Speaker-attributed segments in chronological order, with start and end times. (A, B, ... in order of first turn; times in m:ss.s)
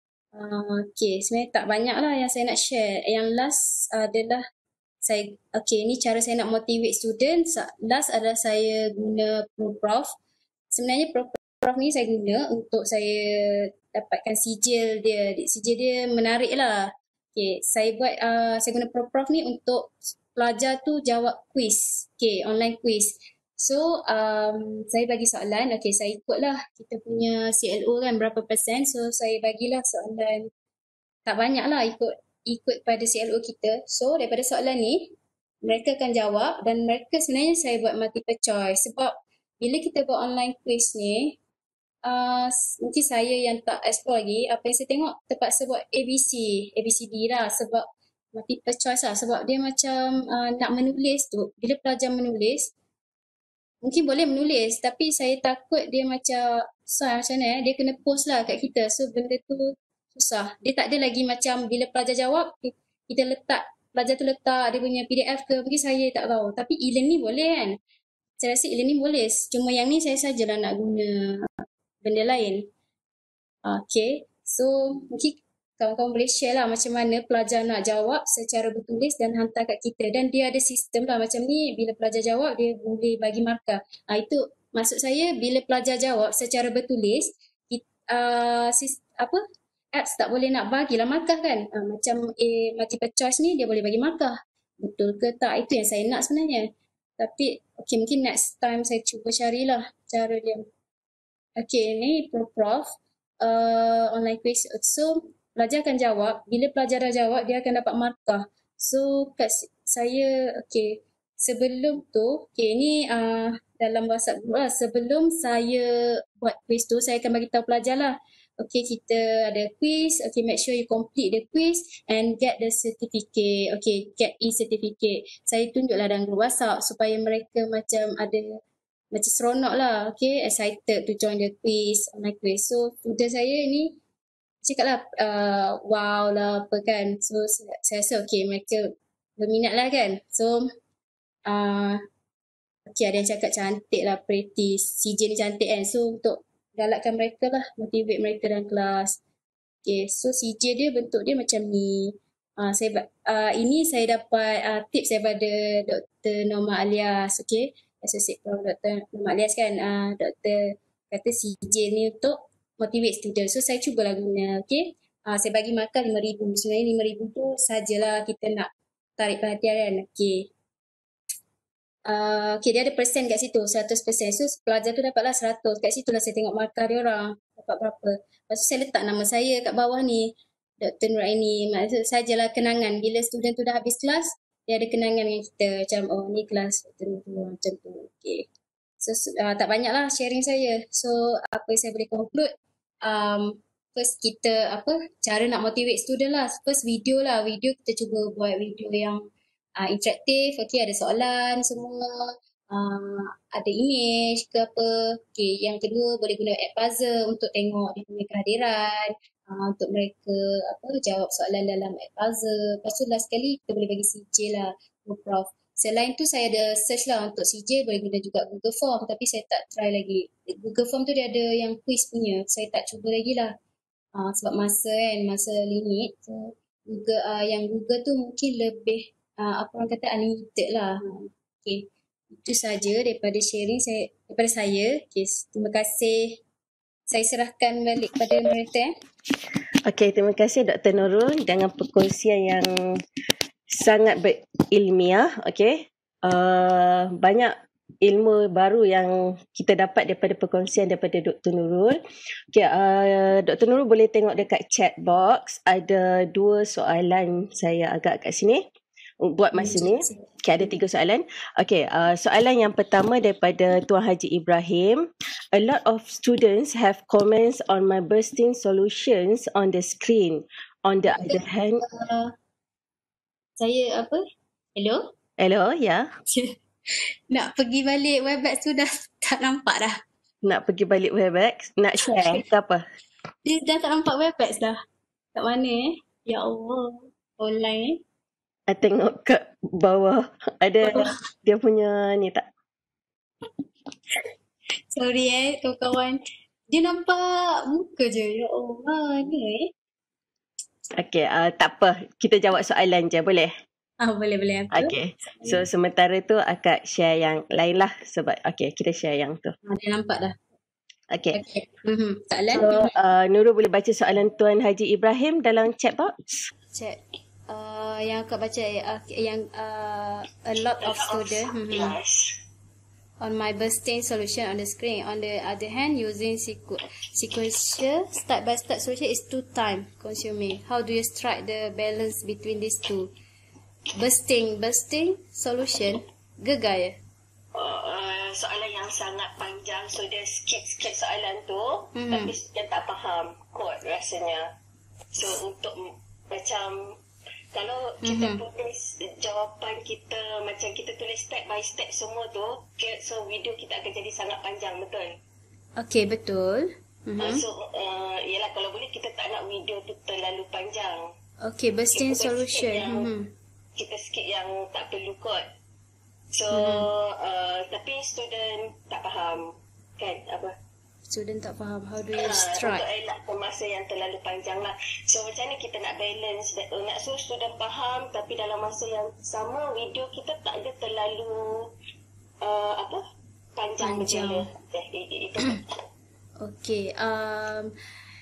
0:00.3-0:04.4 A
0:05.0-0:10.1 A
0:10.7-0:30.5 A
0:31.2-0:35.1 A
0:35.6-0:41.3 A
0:42.0-0:52.7 A
0:53.8-1:07.8 A
1:08.4-1:12.7 A
1:13.6-1:29.4 A
1:29.9-1:40.6 A
1:41.6-2:08.6 A
2:09.1-2:14.0 A
2:14.6-2:20.6 A
2:21.5-2:22.0 A
2:22.9-2:29.2 A
2:29.8-2:50.5 A
2:52.1-3:08.4 A
3:09.0-3:12.5 A
3:13.0-3:19.2 A
3:19.8-3:43.5 A
3:44.1-3:56.4 A
3:57.1-3:58.9 A
3:59.8-4:03.0 B
4:03.7-4:12.0 B
4:12.5-4:18.6 B
4:19.2-4:31.8 B
4:19.5-4:20.7 A
4:31.3-4:32.3 A
4:33.6-4:34.2 A
4:34.8-4:35.1 A
4:35.4-4:36.1 B
4:36.3-4:40.0 A
4:40.4-4:42.8 B
4:42.1-4:42.4 A
4:43.4-4:44.8 A
4:45.3-4:48.0 A
4:48.7-4:52.4 B
4:50.8-4:51.1 A
4:54.9-4:59.7 A
5:01.0-5:03.5 B
5:04.0-5:05.6 A
5:04.7-5:09.5 B
5:09.6-5:10.4 A
5:11.1-5:11.4 B
5:11.3-5:12.9 A
5:12.5-5:16.2 B
5:16.7-5:22.0 A
5:20.8-5:22.3 C
5:23.2-5:33.1 A
5:33.9-5:37.0 A
5:37.5-5:44.4 C
5:41.9-5:42.3 A
5:45.1-5:46.9 C
5:47.5-5:55.2 C
5:48.0-5:48.4 A
5:55.8-5:57.4 A
5:57.2-6:01.0 C
6:01.4-6:03.3 A
6:01.9-6:03.1 C
6:03.8-6:05.4 C
6:06.3-6:10.5 C
6:06.5-6:06.8 A
6:11.1-6:12.8 A
6:12.2-6:21.7 C
6:22.4-6:23.0 C
6:23.6-6:25.6 C
6:23.8-6:24.5 A
6:26.4-6:27.7 A